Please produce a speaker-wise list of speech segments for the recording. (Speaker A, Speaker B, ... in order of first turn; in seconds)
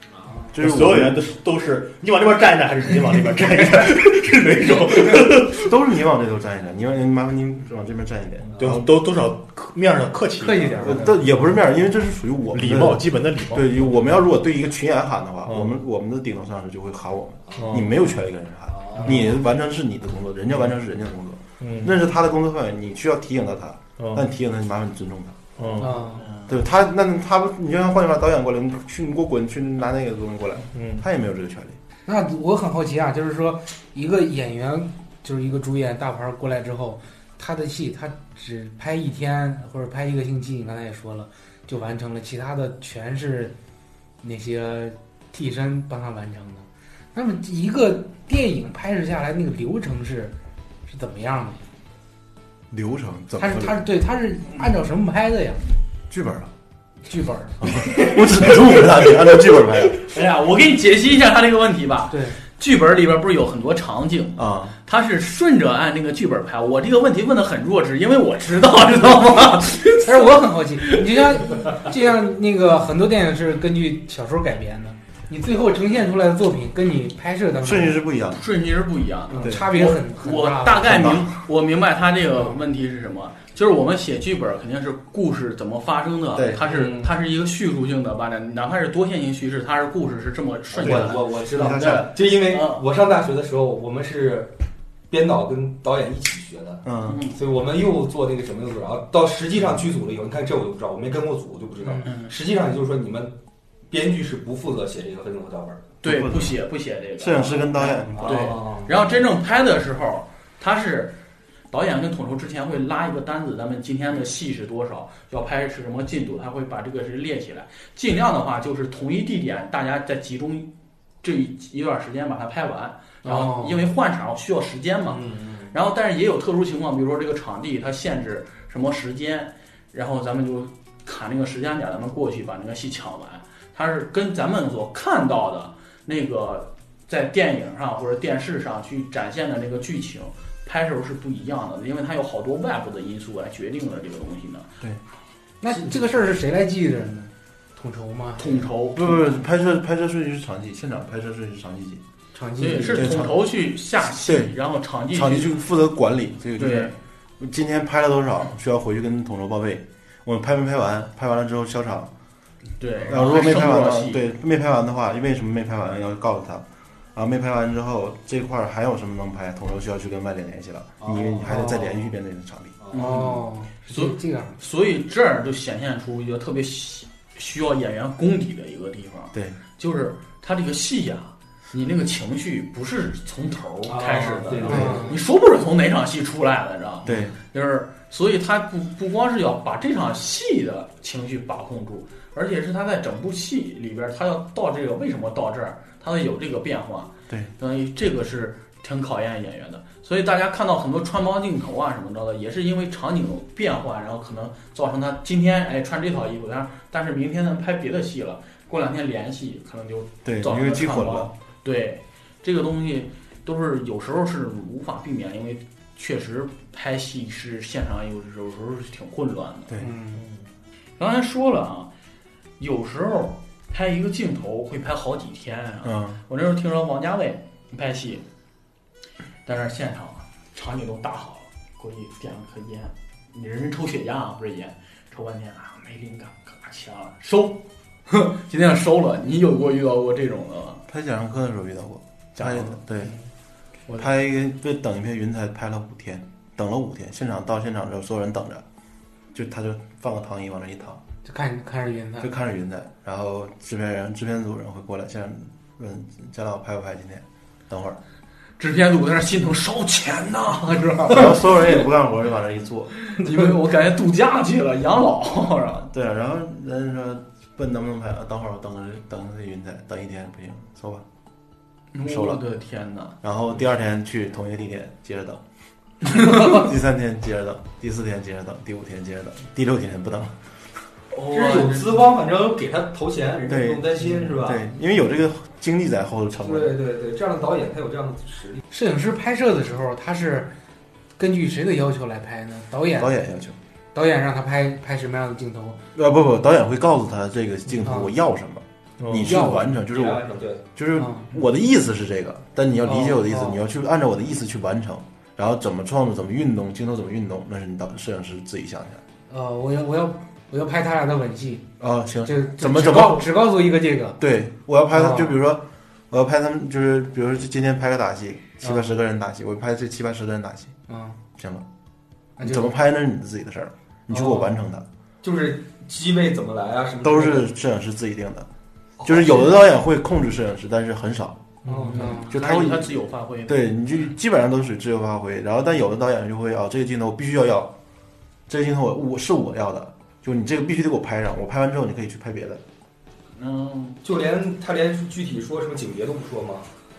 Speaker A: 0.1-0.5, 18.7-19.3, 90.7-94.5, 95.1-103.4, 103.9-105.9, 108.2-109.1, 125.1-125.7, 171.0-171.7, 172.8-173.3, 183.9-185.2, 281.3-284.7, 286.4-288.6, 299.8-300.6, 324.1-324.5, 325.2-327.5, 329.0-329.7, 331.7-332.2, 344.0-346.7
Speaker B: 0.5-1.2, 5.5-8.8, 10.8-25.5, 26.5-31.8, 52.7-53.8, 56.1-56.5, 57.6-60.1, 64.4-64.8, 77.6-78.4, 79.4-79.7, 80.8-81.3, 86.3-86.7, 90.8-92.2, 96.8-97.2, 106.0-106.6, 107.2-108.3, 148.9-152.0, 152.9-153.4, 154.1-154.5, 155.1-162.1, 163.1-172.8, 179.3-179.6, 187.0-187.4, 210.2-211.3, 219.7-219.9, 225.8-226.2, 240.9-243.2, 244.0-248.6, 249.3-251.0, 252.2-258.0, 261.1-263.0, 265.9-271.1, 272.0-272.4, 273.2-275.4, 276.1-280.4, 283.5-286.8, 293.0-293.6, 295.9-300.2, 300.8-309.0, 311.8-313.4, 314.2-320.8, 321.4-321.7, 322.4-324.9, 327.0-328.5, 329.0-331.5, 332.2-337.7, 338.5-342.6
Speaker C: 0.6-5.7, 8.5-11.3, 12.5-14.2, 15.5-15.8, 17.6-17.9, 21.6-22.0, 24.0-24.3, 25.6-26.1, 30.7-31.1, 220.2-220.5, 299.0-299.4, 331.6-332.1
Speaker D: 10.4-11.1, 25.8-26.3, 32.1-43.5, 44.2-50.4, 50.9-51.6, 53.4-55.7, 57.0-57.7, 62.1-62.4, 70.0-78.0, 79.3-81.1, 86.7-87.1, 123.2-123.9, 145.6-148.7, 152.3-153.3, 171.4-172.0, 172.9-174.6, 184.6-185.2, 219.8-220.2, 251.2-252.3, 288.7-290.5, 291.2-293.2, 293.9-295.8, 297.8-298.1, 299.2-299.7, 301.0-301.3, 302.9-303.6, 309.3-311.7, 312.2-314.2, 314.9-315.4, 318.6-318.9, 320.9-321.2, 322.4-322.7, 331.9-332.3
Speaker E: 26.2-26.6, 57.8-59.1, 60.0-71.4, 78.3-92.8, 97.1-97.4, 102.0-102.3, 106.0-111.2, 111.7-120.7, 121.2-144.7, 148.4-149.2, 152.6-155.6, 156.6-157.0, 162.8-164.2, 172.9-219.7, 221.0-221.9, 222.6-228.2, 229.4-240.8, 242.4-243.1, 258.6-261.6, 263.1-265.9, 271.9-273.2, 281.1-282.1, 332.1-333.9, 343.4-344.0